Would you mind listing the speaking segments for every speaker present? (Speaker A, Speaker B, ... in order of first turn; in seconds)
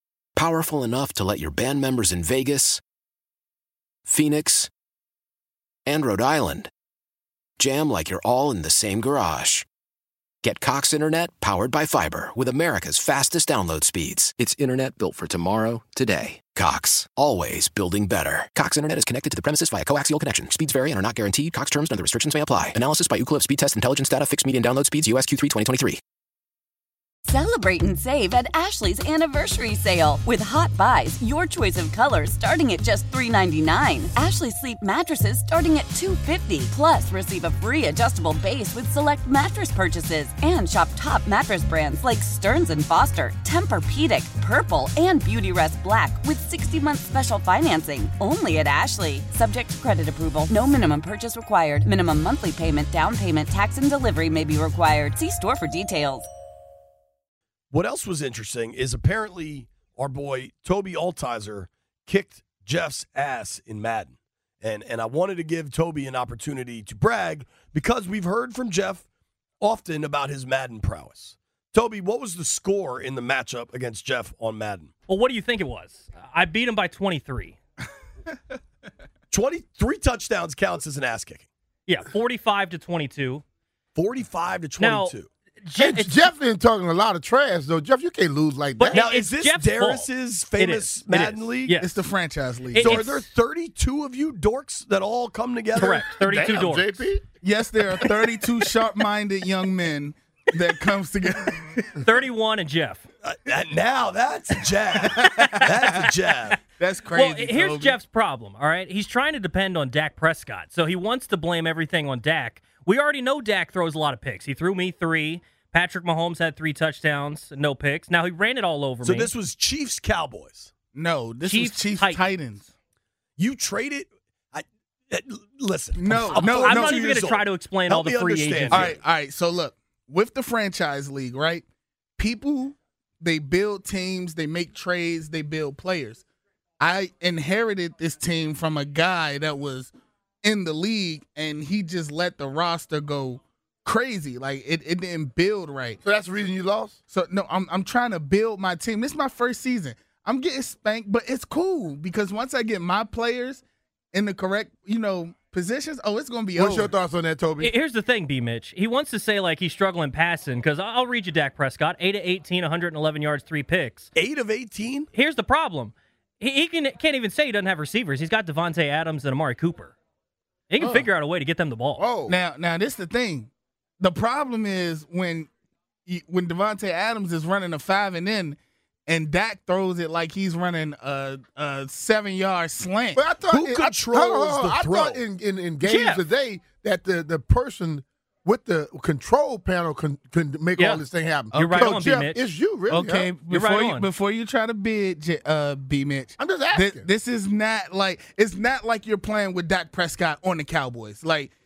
Speaker A: 0.4-2.8, 4.0-4.7, 5.9-6.7, 7.6-9.7, 10.4-26.0
Speaker B: 27.3-56.3
Speaker C: 57.7-69.1, 69.6-74.9, 79.3-81.5, 84.0-85.3, 88.9-91.7, 92.8-96.1, 103.2-106.6, 119.0-120.7, 123.4-129.0, 164.2-165.1, 183.5-185.2
Speaker D: 75.1-77.6, 81.9-83.4, 84.8-86.3, 88.8-92.0, 92.7-93.3, 95.8-97.0, 102.0-103.0, 107.1-119.3, 121.4-122.2, 126.4-128.9, 157.6-164.1, 165.1-169.9, 170.7-172.0, 185.8-186.2, 190.8-192.4, 193.5-194.1
Speaker E: 85.8-89.1, 96.2-97.2, 146.0-147.0, 156.6-157.7, 172.0-172.3, 183.2-193.3, 196.4-197.1
Speaker F: 91.8-93.0, 97.4-101.9, 104.9-105.7, 106.8-108.0, 120.9-122.7, 125.9-127.0, 128.7-131.6, 132.2-136.2, 136.8-146.0, 147.1-156.9, 170.8-171.1, 172.3-175.5, 176.1-183.3, 191.5-192.0, 192.9-201.5